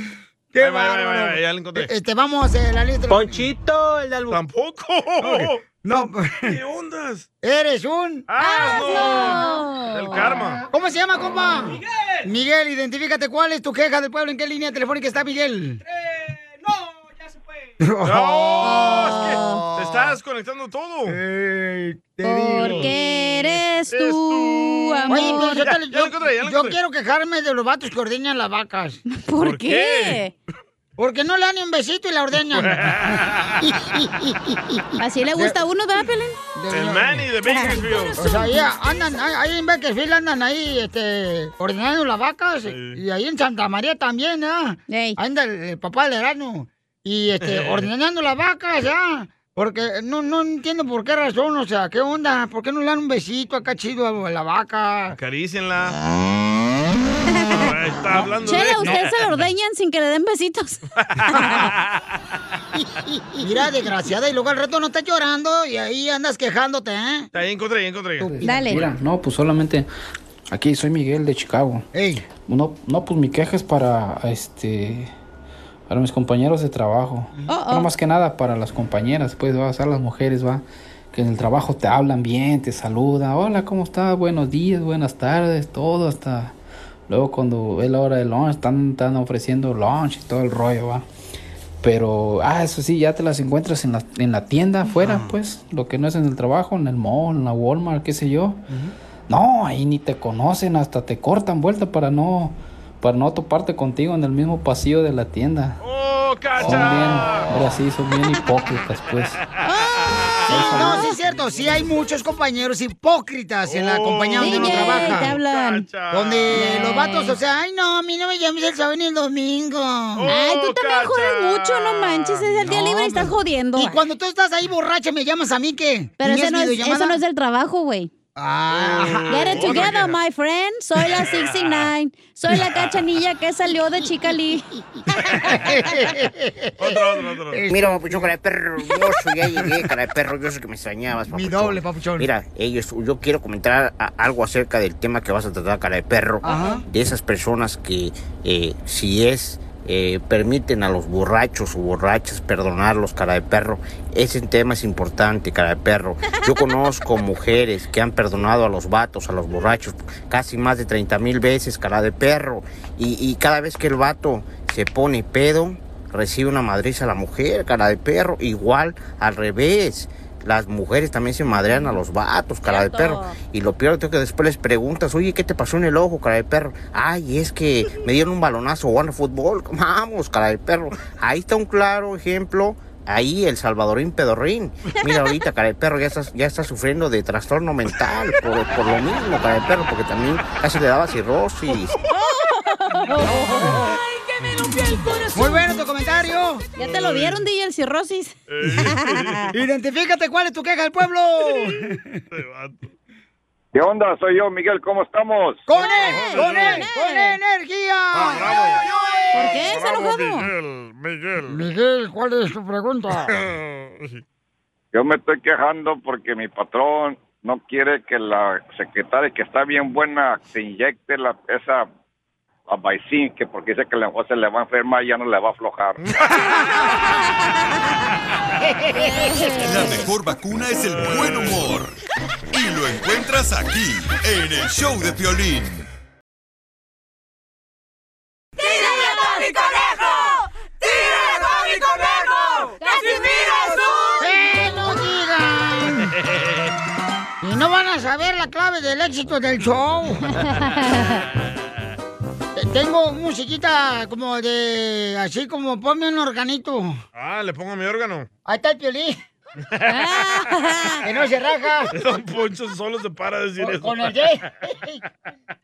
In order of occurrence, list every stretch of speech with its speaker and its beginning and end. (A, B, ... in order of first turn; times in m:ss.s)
0:00.5-0:03.5 A
0:00.6-0:01.9 B
0:04.3-0:07.3 B
0:05.2-0:06.6 A
0:07.4-0:08.2 A
0:08.3-0:10.6 B
0:08.4-0:10.4 C
0:10.7-0:15.8 A
0:17.8-0:20.2 A
0:18.0-0:21.2 B
0:18.6-0:19.6 C
0:21.1-0:22.9 A
0:22.2-0:25.6 C
0:22.6-0:23.0 B
0:23.9-0:26.8 B
0:25.1-0:29.0 A
0:29.1-0:30.3 C
0:29.4-0:30.2 B
0:31.0-0:35.6 A
0:32.5-0:33.7 B
0:35.0-0:36.4 C
0:36.5-0:37.3 A
0:36.7-0:38.3 B
0:37.4-0:38.5 C
0:38.2-0:55.2 A
0:42.7-0:43.0 B
0:44.9-0:45.2 C
0:47.4-0:47.9 B
0:55.1-0:56.0 B
0:57.4-0:57.7 C
0:57.6-0:59.2 B
0:58.4-1:01.6 C
1:01.0-1:02.0 B
1:01.3-1:01.7 A
1:03.3-1:07.3 A
1:07.3-1:08.3 B
1:08.2-1:09.9 D
1:08.4-1:08.8 C
1:10.5-1:11.9 D
1:11.9-1:12.2 A
1:12.4-1:15.1 D
1:15.9-1:26.5 D
1:17.5-1:17.9 C
1:27.1-1:31.0 D
1:31.8-1:38.6 D
1:34.9-1:35.3 A
1:39.3-1:45.8 D
1:45.8-1:47.5 B
1:46.6-1:49.4 D
1:49.6-1:51.1 C
1:50.0-1:50.7 B
1:50.4-1:55.4 A
1:50.5-1:51.0 D
1:53.6-1:56.7 B
1:54.4-1:55.8 C
1:56.1-2:00.3 A
1:56.5-1:57.4 C
2:00.2-2:02.5 B
2:00.3-2:04.0 C
2:02.6-2:07.2 A
2:06.2-2:08.1 C
2:08.4-2:10.0 A
2:08.7-2:10.2 B
2:09.3-2:14.6 C
2:11.1-2:11.9 B
2:15.3-2:18.2 A
2:16.8-2:17.6 B
2:17.7-3:12.0 E
2:21.3-2:22.3 A
2:26.4-2:26.8 A
2:36.2-2:36.6 C
2:51.5-2:52.0 C
2:52.6-2:53.4 C
3:12.1-3:13.9 C
3:13.5-3:13.8 A
3:13.7-3:15.6 F
3:15.3-3:16.6 A
3:16.8-3:19.5 C
3:16.8-3:17.4 B
3:18.5-3:19.5 B
3:19.5-3:22.0 A
3:22.3-3:22.9 B
3:23.7-3:25.6 G
3:25.7-3:29.6 A
3:25.8-3:26.8 B
3:25.8-3:27.4 C
3:28.1-3:31.6 B
3:29.3-3:30.5 C
3:31.4-3:33.3 A
3:34.9-3:41.9 G
3:42.7-3:46.0 G
3:46.0-3:47.0 B
3:49.0-3:50.0 C
3:49.6-3:51.9 H
3:50.9-3:51.6 B
3:52.5-3:55.8 H
3:58.6-4:00.2 F
4:00.8-4:04.2 F
4:02.8-4:03.9 C
4:04.2-4:06.1 A
4:07.4-4:10.4 A
4:10.4-4:11.2 C
4:12.6-4:17.0 A
4:17.1-4:18.3 B
4:18.4-4:19.2 A
4:19.7-4:20.3 B
4:19.9-4:21.0 C
4:21.0-4:21.9 A
4:21.9-4:24.4 B
4:23.6-4:25.0 A